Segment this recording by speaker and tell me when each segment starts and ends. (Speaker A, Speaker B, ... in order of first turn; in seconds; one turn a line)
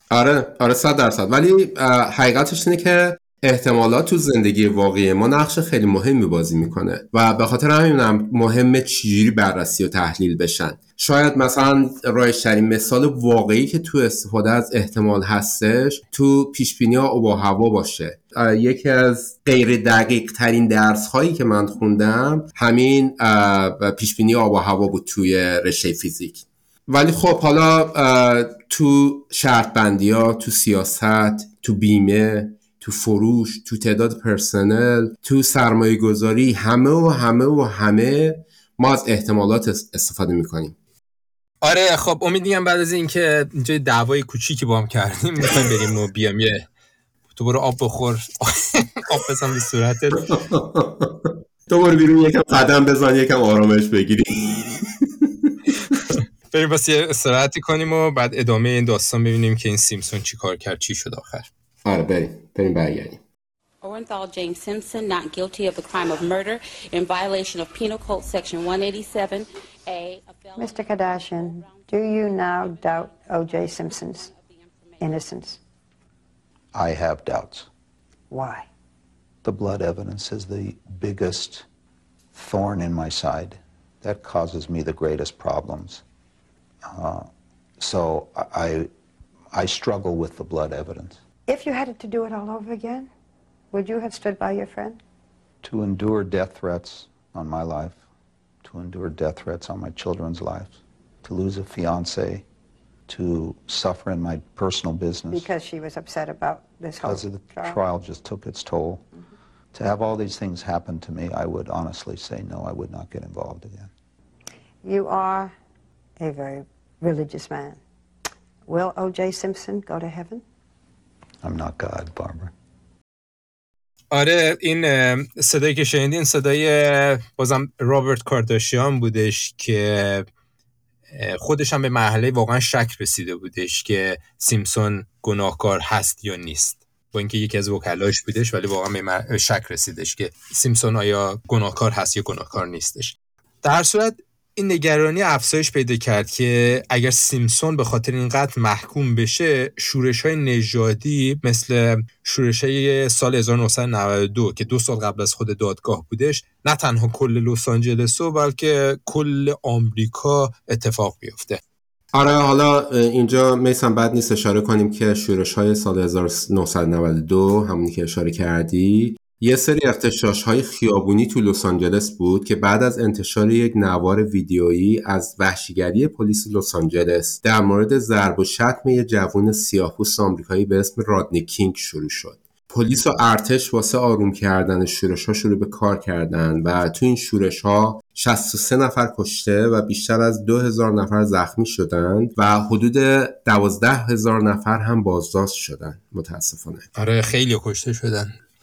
Speaker A: 0.1-40.8
Speaker B: 41.6-46.6
Speaker B: 47.3-50.3
Speaker A: 50.3-55.7
Speaker B: 56.1-61.5
Speaker A: 61.8-63.2
Speaker C: 63.8-75.4
Speaker D: 70.5-74.3
Speaker D: 75.0-75.6
Speaker E: 76.7-77.7
Speaker D: 78.3-78.7
Speaker E: 79.4-81.6
Speaker E: 82.3-86.0
Speaker E: 86.9-88.9
Speaker E: 89.5-91.2
Speaker D: 91.5-93.1
Speaker D: 93.7-95.0
Speaker E: 95.6-98.0
Speaker E: 98.6-102.4
Speaker E: 103.1-105.5
Speaker D: 105.3-107.8
Speaker E: 107.0-109.0
Speaker E: 109.7-113.9
Speaker D: 114.8-115.5
Speaker D: 116.2-117.8
Speaker D: 118.7-120.4
Speaker E: 121.4-122.5
Speaker B: 124.1-130.2
Speaker B: 131.1-161.6
Speaker A: 162.1-196.9
Speaker B: 196.9-198.3